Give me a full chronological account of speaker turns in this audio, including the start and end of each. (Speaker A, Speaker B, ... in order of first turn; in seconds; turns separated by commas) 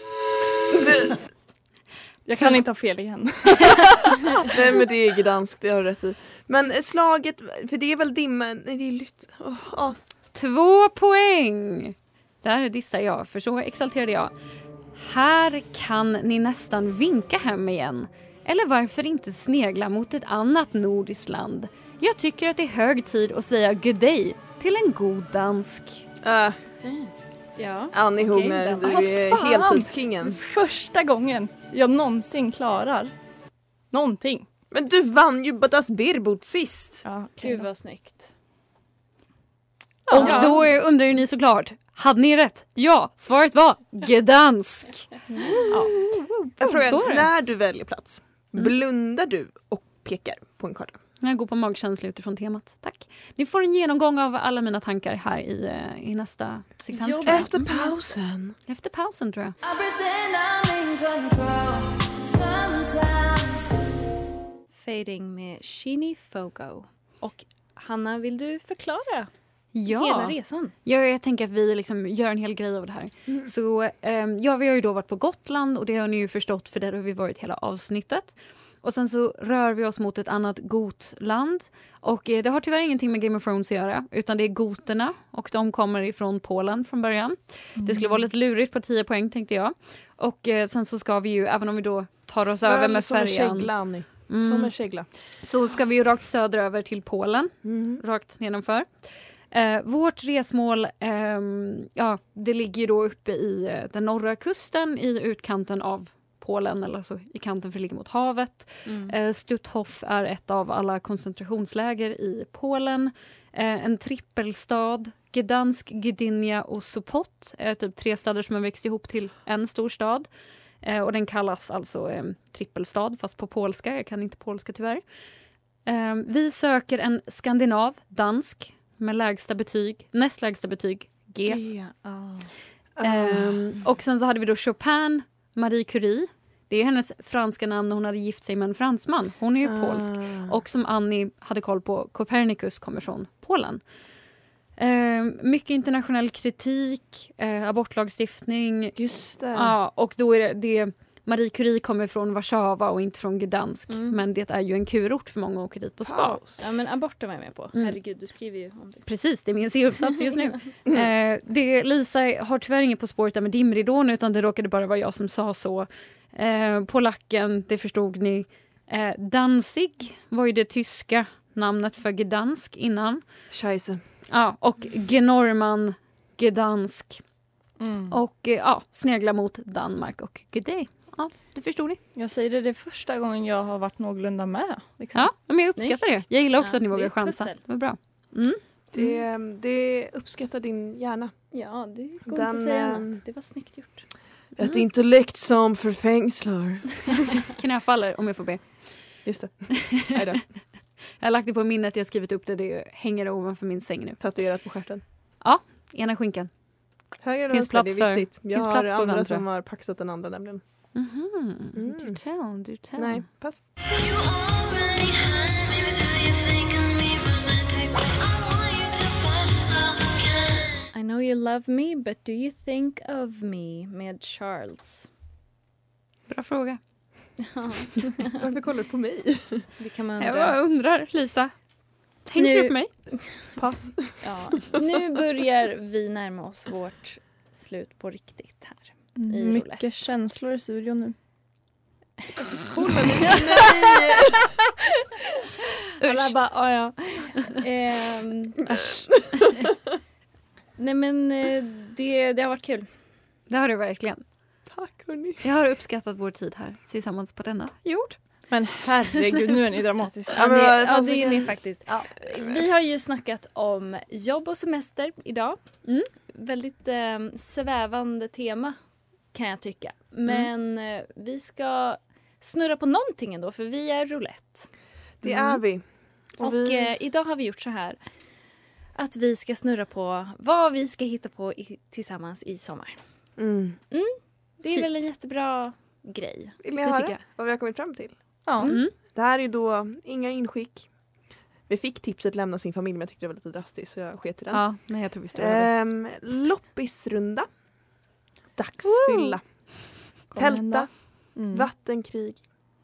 Speaker A: 0.7-1.2, Speaker B: 2.2-4.4, Speaker A: 4.4-10.0, Speaker C: 10.3-14.3, Speaker C: 14.9-26.0, Speaker A: 26.2-26.6, Speaker D: 26.8-29.0, Speaker A: 27.9-30.4, Speaker B: 28.8-33.1, Speaker B: 33.9-34.5, Speaker A: 34.7-37.0, Speaker D: 37.0-38.3, Speaker A: 40.1-40.6, Speaker C: 40.1-47.3, Speaker D: 40.2-40.5, Speaker D: 45.3-45.9, Speaker A: 46.6-51.0, Speaker C: 51.2-57.6, Speaker D: 56.9-58.0, Speaker A: 57.3-58.5, Speaker C: 58.7-59.5, Speaker E: 59.6-63.7, Speaker D: 64.7-69.3, Speaker C: 69.7-93.7, Speaker D: 69.8-70.7, Speaker B: 87.8-88.2, Speaker A: 92.6-95.1, Speaker C: 94.3-94.7, Speaker C: 95.4-120.3, Speaker A: 97.7-98.0, Speaker D: 108.8-109.1, Speaker C: 120.8-125.0, Speaker C: 125.8-131.6, Speaker B: 131.4-132.5, Speaker A: 133.0-133.8, Speaker C: 133.0-143.8, Speaker A: 139.6-140.5, Speaker C: 144.8-148.9, Speaker A: 149.0-149.7, Speaker C: 149.5-156.4, Speaker D: 153.9-154.2, Speaker A: 156.0-156.6, Speaker D: 156.6-159.1, Speaker C: 159.1-173.2, Speaker A: 173.5-174.0, Speaker C: 174.3-177.2, Speaker B: 177.8-178.2, Speaker C: 178.1-182.0, Speaker B: 182.1-185.3, Speaker C: 185.1-188.6, Speaker D: 185.7-187.6, Speaker A: 188.9-191.3, Speaker D: 191.5-194.1, Speaker A: 192.2-193.2, Speaker A: 194.6-197.3, Speaker C: 197.5-199.2, Speaker A: 199.2-200.4, Speaker C: 201.2-204.2, Speaker A: 204.2-205.0, Speaker C: 205.4-206.5, Speaker A: 207.2-210.6, Speaker C: 207.5-209.4, Speaker C: 210.9-213.2, Speaker A: 211.7-212.2, Speaker A: 212.9-213.6, Speaker E: 213.8-220.8, Speaker D: 220.9-225.1, Speaker C: 226.3-226.8, Speaker D: 227.4-228.4, Speaker A: 228.4-229.7, Speaker D: 229.8-230.6, Speaker C: 230.2-231.5, Speaker C: 232.2-232.9, Speaker D: 232.3-233.3, Speaker A: 233.6-234.2, Speaker D: 234.2-240.1, Speaker B: 239.2-241.1, Speaker A: 242.5-244.5, Speaker D: 246.0-248.6, Speaker C: 246.0-246.3, Speaker A: 248.7-249.6, Speaker D: 250.8-252.9, Speaker C: 253.5-254.2, Speaker A: 254.7-255.4, Speaker C: 255.4-258.2, Speaker B: 258.5-260.8, Speaker A: 260.3-261.5, Speaker D: 260.4-265.6, Speaker D: 266.3-268.8, Speaker D: 269.3-274.7, Speaker A: 275.2-276.9, Speaker D: 276.4-278.0, Speaker D: 278.9-283.0, Speaker A: 283.4-283.8, Speaker D: 283.9-287.2, Speaker A: 286.6-290.9, Speaker C: 288.6-288.9, Speaker A: 291.6-294.7, Speaker C: 294.5-295.7, Speaker A: 295.3-297.5, Speaker A: 298.5-302.5, Speaker C: 298.9-299.2, Speaker B: 300.3-301.7